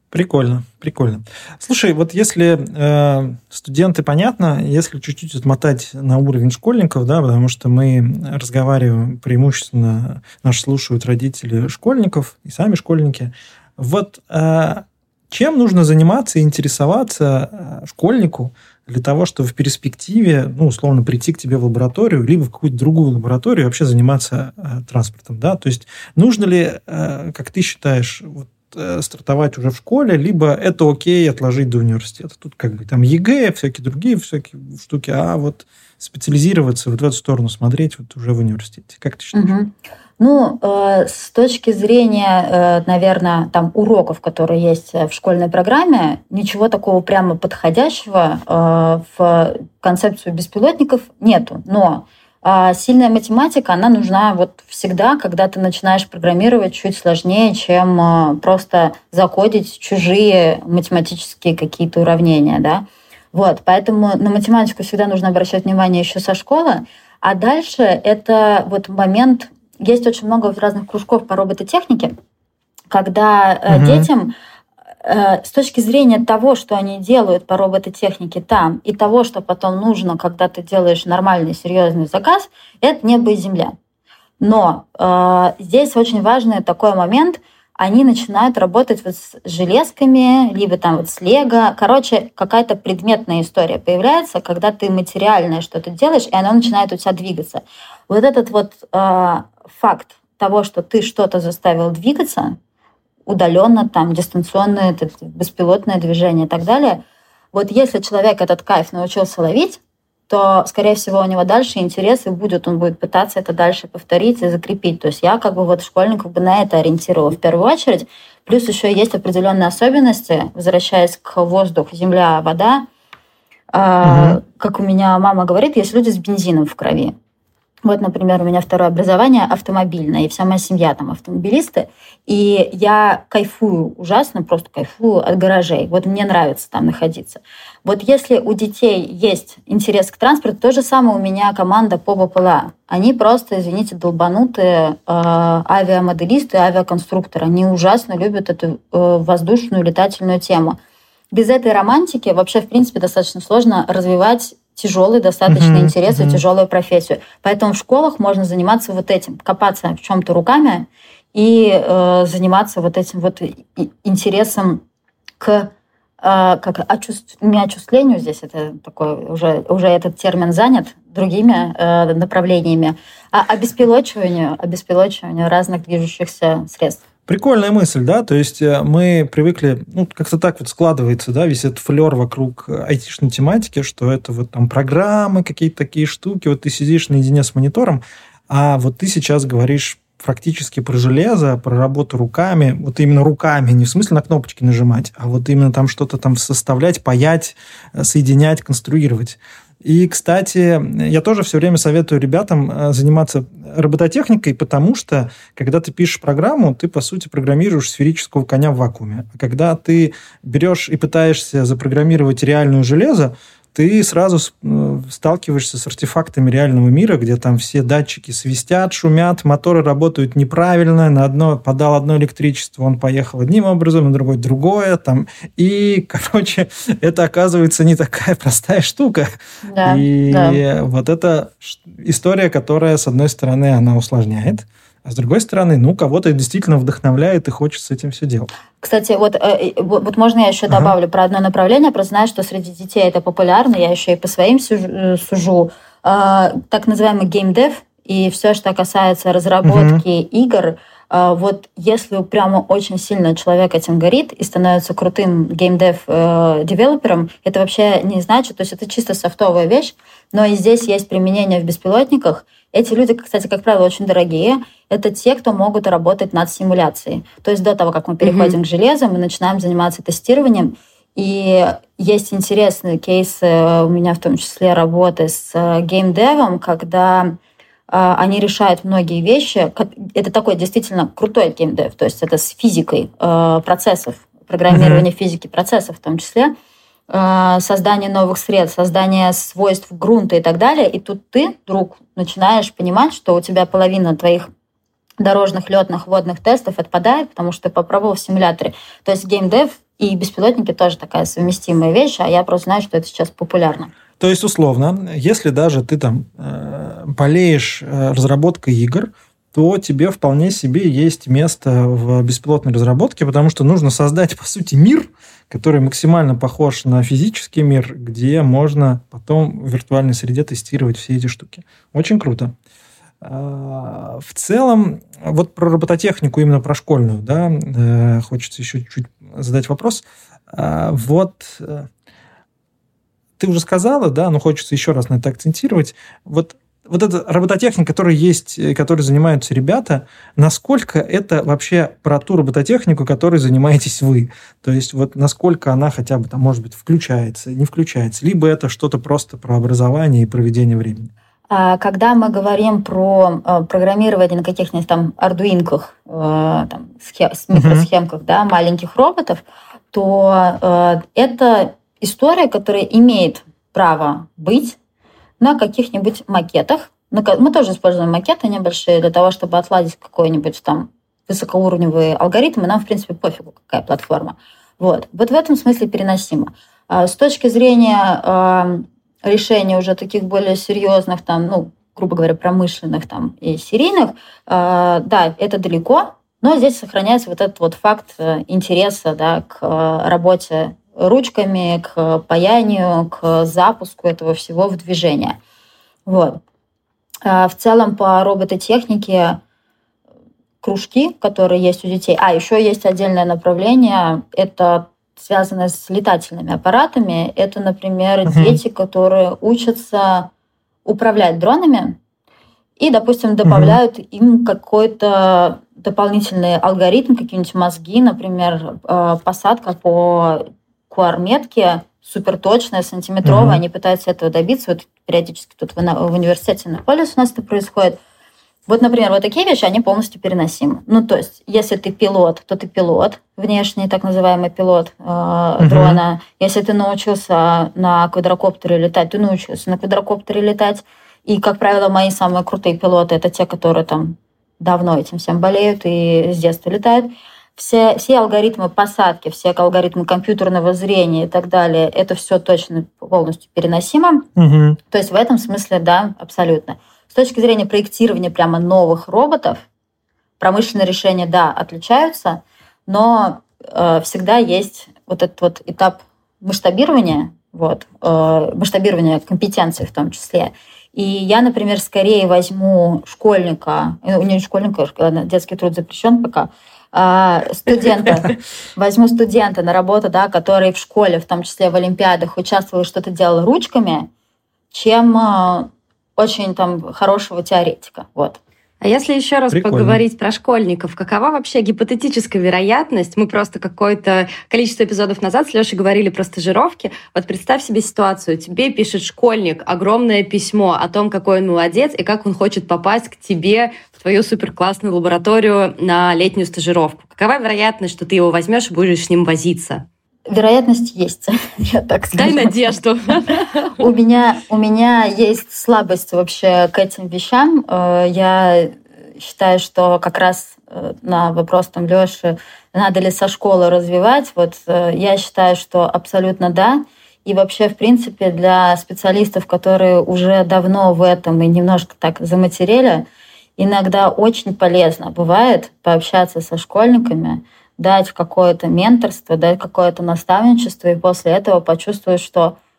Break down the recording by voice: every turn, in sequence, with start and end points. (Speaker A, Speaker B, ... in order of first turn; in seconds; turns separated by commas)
Speaker A: 0.1-39.5, Speaker B: 39.3-72.2, Speaker B: 72.9-74.3, Speaker A: 73.7-74.1, Speaker B: 75.0-83.8, Speaker B: 84.4-102.6, Speaker B: 103.3-107.0, Speaker B: 107.5-122.9, Speaker B: 123.7-127.1, Speaker A: 124.0-124.4, Speaker B: 127.8-150.8, Speaker B: 151.3-164.8, Speaker A: 155.5-156.4, Speaker B: 165.4-177.0, Speaker A: 177.3-229.3, Speaker B: 229.6-230.6, Speaker A: 229.8-238.5, Speaker B: 238.8-277.4, Speaker A: 249.6-250.0, Speaker C: 268.2-268.6, Speaker B: 277.9-286.5, Speaker A: 284.7-285.1, Speaker B: 287.1-294.5, Speaker B: 295.2-303.9, Speaker A: 304.2-322.5, Speaker A: 323.2-331.9, Speaker A: 333.4-351.1, Speaker B: 351.5-364.8, Speaker A: 357.5-357.9, Speaker B: 365.4-395.4, Speaker B: 396.1-396.4, Speaker B: 397.2-399.4, Speaker B: 400.6-410.3, Speaker A: 408.3-408.6, Speaker B: 410.9-412.0, Speaker B: 412.8-428.0, Speaker A: 413.4-413.8, Speaker A: 423.2-423.6, Speaker B: 428.7-454.3, Speaker A: 435.6-436.0, Speaker A: 454.4-454.8, Speaker B: 454.9-459.6, Speaker B: 460.4-484.1, Speaker B: 484.7-488.4, Speaker C: 488.8-509.9, Speaker A: 489.5-490.0, Speaker B: 510.3-512.6, Speaker C: 512.1-513.8, Speaker B: 513.8-533.1, Speaker B: 533.6-542.6